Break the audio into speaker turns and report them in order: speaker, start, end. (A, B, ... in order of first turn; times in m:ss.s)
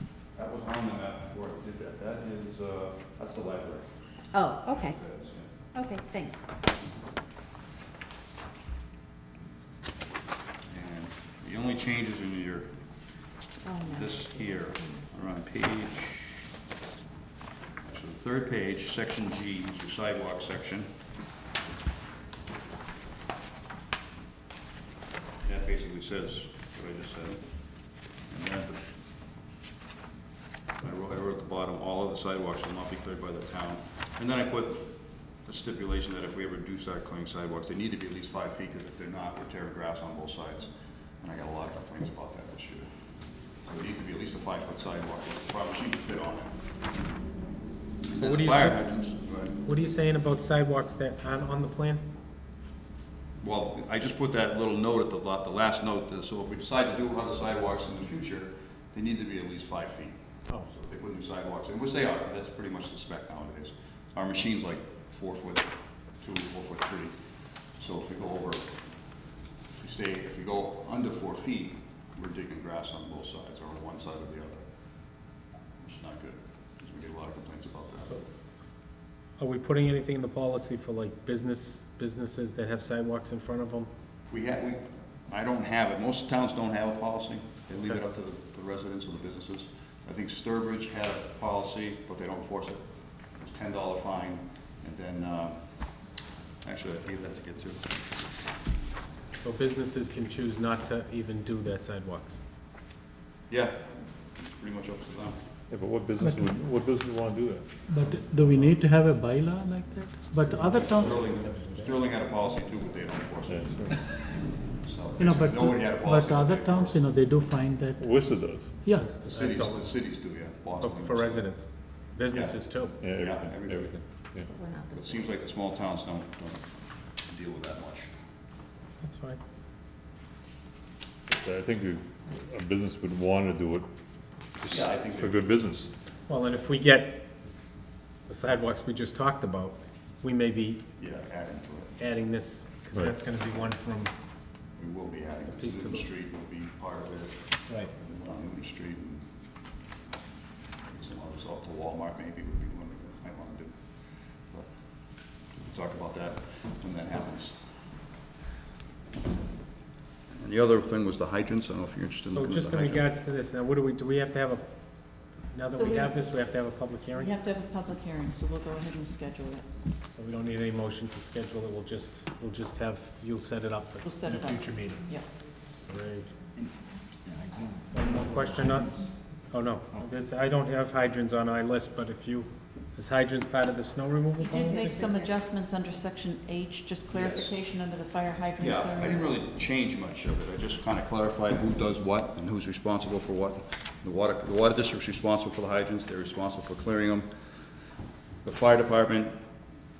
0:00.3-0:03.9 A
0:04.3-0:05.0 B
0:04.6-0:05.5 A
0:05.7-0:06.4 B
0:10.7-0:12.7 A
0:13.6-0:15.0 B
0:13.8-0:16.5 A
0:17.8-0:20.9 A
0:25.4-0:27.4 A
0:28.3-0:28.8 A
0:30.8-0:42.9 A
0:43.6-0:46.6 A
0:48.1-0:49.6 A
0:48.2-0:48.9 C
0:49.6-0:52.0 C
0:53.4-1:07.1 A
1:07.8-1:08.8 A
1:09.8-1:14.7 A
1:15.8-1:18.2 A
1:19.4-1:23.9 C
1:24.3-1:36.0 A
1:36.6-1:38.0 A
1:39.4-1:42.4 C
1:43.5-1:45.4 A
1:45.7-1:47.9 D
1:47.9-1:51.2 E
1:50.8-1:53.9 A
1:53.4-1:54.0 D
1:54.8-1:57.0 A
1:55.2-1:58.0 E
1:58.0-1:58.9 D
1:59.2-2:01.5 A
1:59.2-1:59.9 C
2:00.8-2:03.0 C
2:02.3-2:04.0 A
2:03.0-2:04.5 D
2:04.5-2:05.3 B
2:04.9-2:08.1 A
2:09.0-2:09.4 C
2:11.3-2:13.9 D
2:14.6-2:15.9 D
2:14.7-2:15.4 A
2:16.3-2:17.2 C
2:18.3-2:20.8 C
2:21.0-2:21.9 A
2:22.0-2:24.1 C
2:24.8-2:29.2 A
2:25.5-2:26.1 C
2:27.7-2:27.9 C
2:30.9-2:33.8 A
2:35.4-2:37.6 A
2:40.4-2:43.1 A
2:42.3-2:44.7 C
2:45.5-2:47.3 C
2:45.7-2:46.2 F
2:47.1-2:49.6 F
2:50.1-2:55.0 C
2:54.0-2:55.2 F
2:55.8-2:56.3 C
2:57.9-3:05.0 C
3:04.4-3:09.3 F
3:04.4-3:05.3 B
3:07.1-3:07.6 A
3:08.6-3:17.3 A
3:18.4-3:19.4 A